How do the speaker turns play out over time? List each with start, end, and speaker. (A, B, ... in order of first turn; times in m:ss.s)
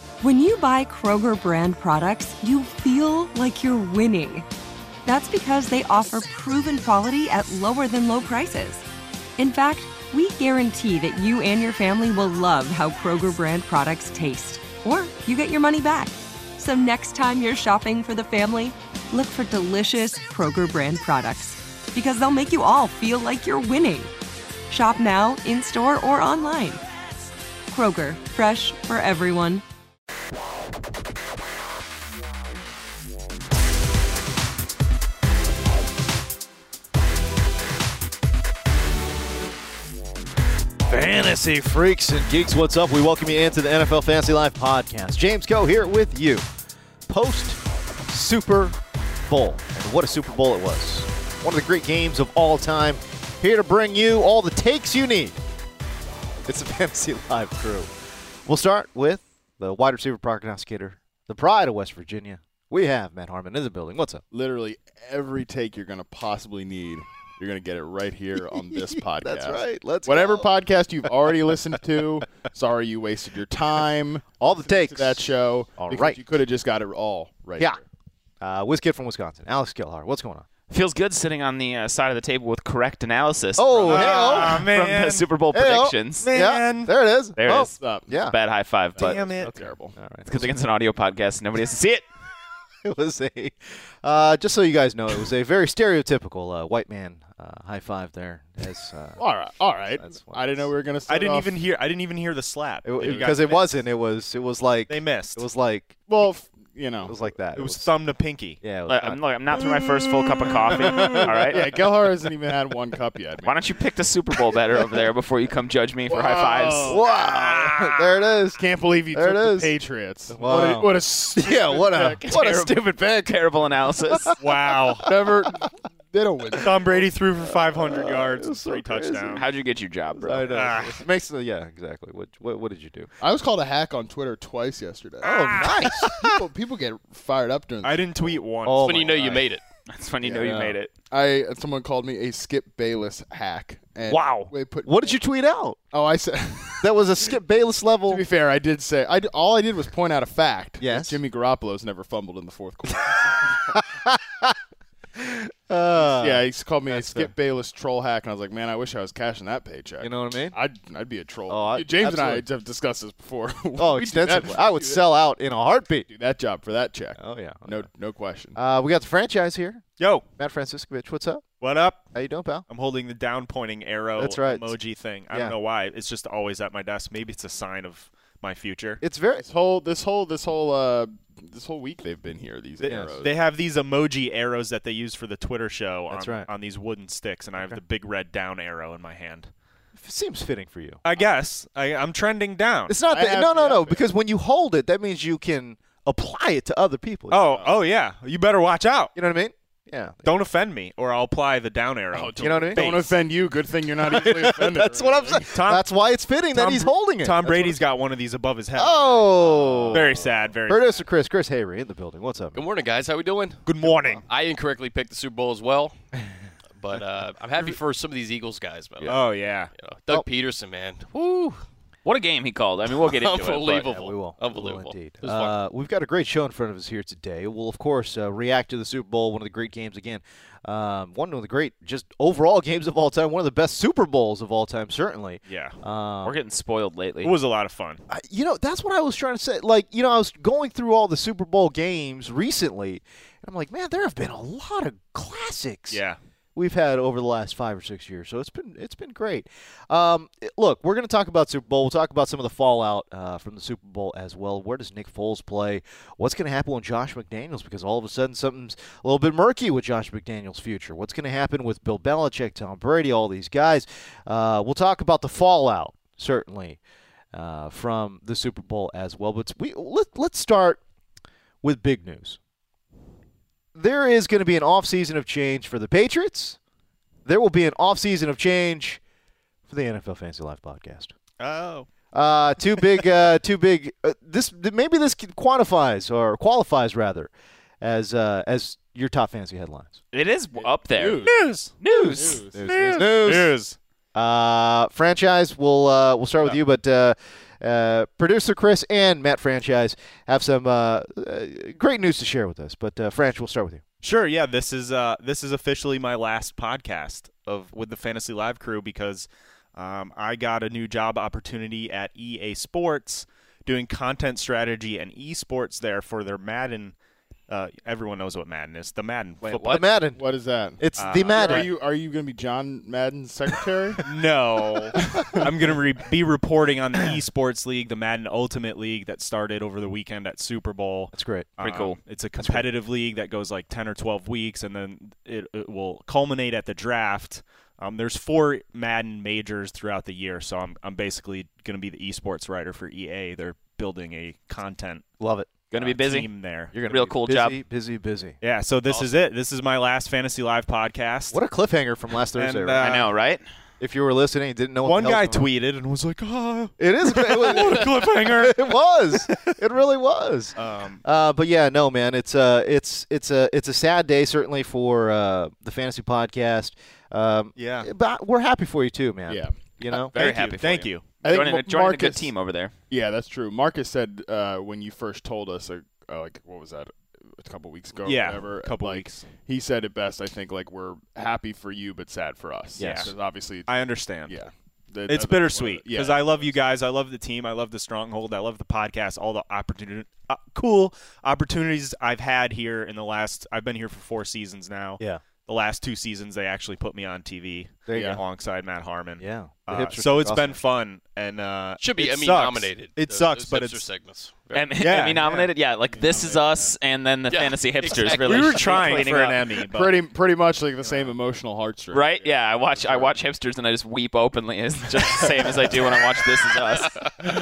0:00.2-0:04.5 A
0:05.1-0:08.8 A
0:09.4-0:24.1 A
0:24.7-0:26.8 A
0:27.7-0:29.6 A
0:40.9-0:46.4 B
0:47.1-0:55.4 B
0:56.5-0:57.9 B
0:58.5-1:04.2 B
1:04.3-1:17.8 C
1:08.6-1:10.5 B
1:14.4-1:15.3 B
1:15.8-1:16.2 B
1:18.4-1:20.5 B
1:20.7-1:26.3 D
1:23.6-1:24.7 B
1:23.8-1:25.3 E
1:25.5-1:28.4 B
1:26.2-1:26.9 E
1:27.4-1:29.2 D
1:27.8-1:28.1 C
1:29.0-1:29.9 C
1:29.0-1:29.5 E
1:29.4-1:30.3 B
1:30.3-1:32.0 D
1:32.8-1:39.2 B
1:39.2-1:41.5 C
1:40.0-1:40.7 B
1:41.1-1:43.6 E
1:42.8-1:46.0 B
1:44.9-1:45.4 E
1:46.1-1:47.1 C
1:47.0-1:47.9 B
1:47.6-1:48.6 E
1:48.6-1:49.2 B
1:48.9-1:51.6 D
1:49.6-1:49.8 C
1:50.4-1:53.6 C
1:50.9-1:51.5 B
1:53.4-1:57.0 D
1:56.1-1:57.0 C
1:56.9-1:58.6 B
1:57.4-1:58.0 E
1:58.6-2:02.2 C
1:59.1-1:59.7 B
2:00.3-2:03.4 B
2:02.3-2:04.4 D
2:04.1-2:04.5 B
2:04.4-2:05.1 E
2:05.0-2:07.1 C
2:06.6-2:09.4 E
2:07.5-2:09.4 B
2:09.3-2:10.6 D
2:10.2-2:13.1 B
2:10.5-2:11.0 E
2:13.2-2:18.4 C
2:15.2-2:16.3 B
2:15.3-2:16.1 E
2:17.8-2:19.3 E
2:18.6-2:19.4 B
2:18.8-2:19.6 F
2:19.9-2:20.9 D
2:20.2-2:25.2 C
2:20.4-2:20.8 B
2:24.0-2:25.8 B
2:25.9-2:26.9 C
2:26.8-2:28.2 B
2:28.1-2:33.8 C
2:30.8-2:31.2 B
2:33.7-2:34.6 B
2:35.2-2:37.3 B
2:36.0-2:45.0 C
2:40.0-2:40.6 B
2:41.5-2:42.4 B
2:43.8-2:46.1 B
2:46.1-2:48.6 C
2:47.2-2:47.9 B
2:48.6-2:49.8 B
2:50.0-2:50.2 E
2:50.4-2:51.5 B
2:51.6-2:52.1 E
2:52.1-2:52.7 B
2:52.7-2:59.0 E
2:54.2-2:54.7 B
2:59.0-2:59.4 B
2:59.4-3:03.4 C
3:02.8-3:09.5 E
3:02.8-3:03.1 B
3:06.1-3:06.5 B
3:10.0-3:11.0 B
3:11.0-3:13.0 E
3:12.9-3:17.4 B
3:13.1-3:14.0 C
3:17.3-3:19.1 E
3:19.2-3:20.3 B
3:20.2-3:23.2 E
3:22.1-3:25.5 C
3:22.4-3:23.0 B
3:24.1-3:27.8 B
3:25.5-3:25.8 E
3:26.5-3:31.0 E
3:28.8-3:32.6 B
3:32.5-3:33.7 F
3:33.7-3:34.2 E
3:33.9-3:34.2 B
3:34.3-3:36.0 F
3:36.8-3:41.6 F
3:39.0-3:39.7 E
3:42.0-3:44.0 D
3:43.0-3:45.6 F
3:44.0-3:56.4 B
3:55.5-3:55.8 E
3:56.2-3:57.3 D
3:57.2-3:58.0 E
3:58.1-4:06.0 B
4:05.9-4:06.2 E
4:06.6-4:26.8 B
4:27.3-4:30.8 B
4:31.6-4:32.4 B
4:33.8-4:36.6 B
4:37.2-4:39.0 B
4:39.7-4:41.1 B
4:41.4-4:41.9 E
4:42.1-4:50.0 B
4:50.1-4:51.3 D
4:50.6-4:51.4 C
4:51.2-4:51.7 E
4:51.8-4:52.4 D
4:52.0-4:52.6 C
4:52.6-4:53.5 B
4:52.6-4:53.8 E
4:54.1-5:03.8 B
5:04.0-5:17.0 E
5:17.5-5:19.8 E
5:19.4-5:19.8 F
5:19.6-5:20.2 B
5:20.1-5:24.1 C
5:20.8-5:21.7 B
5:21.0-5:21.7 E
5:24.0-5:45.0 E
5:24.9-5:25.8 C
5:31.1-5:31.5 B
5:31.6-5:32.0 D
5:32.4-5:32.7 B
5:45.2-5:45.5 B
5:45.7-5:47.6 D
5:45.8-5:46.7 E
5:46.7-5:48.4 B
5:48.4-5:51.4 E
5:51.3-5:52.8 B
5:52.4-5:53.1 E
5:52.8-5:53.4 D
5:53.8-5:55.5 B
5:54.8-5:58.6 E
5:56.8-6:10.1 B
5:59.2-5:59.5 E
6:00.6-6:01.0 E
6:07.6-6:07.9 E
6:09.3-6:09.5 C
6:10.1-6:11.2 E
6:10.2-6:12.7 D
6:11.2-6:12.3 C
6:12.9-6:23.7 C
6:18.0-6:19.3 E
6:22.8-6:23.1 B
6:22.8-6:23.1 E
6:23.7-6:24.4 E
6:24.3-6:26.6 C
6:25.1-6:43.9 E
6:37.9-6:38.2 B
6:39.2-6:40.6 B
6:41.8-6:44.7 F
6:44.5-6:49.7 D
6:44.8-6:45.5 E
6:46.0-6:46.4 C
6:47.3-6:49.3 F
6:47.9-6:50.0 E
6:49.7-6:53.1 C
6:51.9-6:57.0 D